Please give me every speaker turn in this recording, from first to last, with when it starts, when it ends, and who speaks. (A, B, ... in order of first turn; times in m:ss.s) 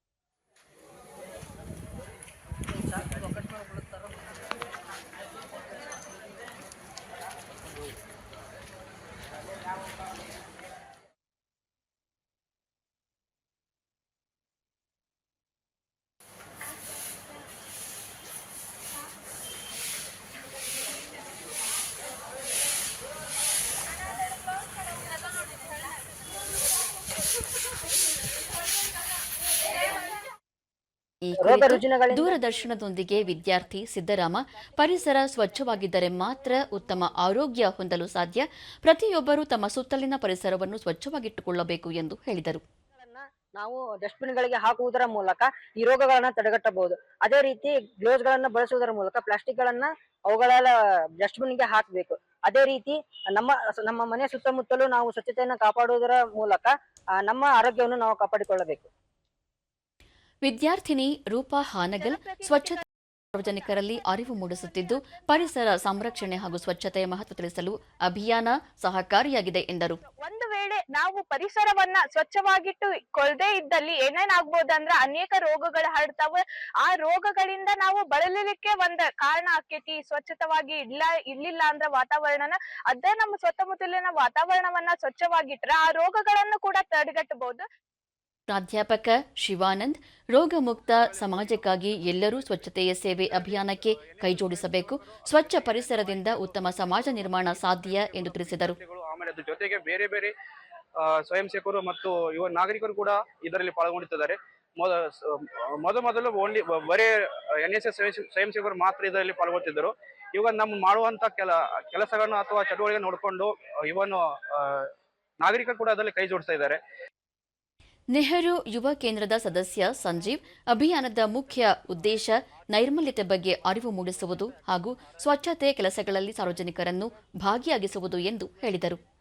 0:02.7-0:04.4 A
0:31.2-0:42.6 B
0:31.4-0:32.3 A
0:43.0-0:58.9 A
1:00.4-1:10.0 B
1:02.0-1:02.8 C
1:03.4-1:05.2 C
1:10.2-1:27.6 C
1:28.5-1:38.8 B
1:30.8-1:32.7 D
1:33.3-1:40.3 D
1:41.0-1:56.8 D
1:58.1-2:09.0 B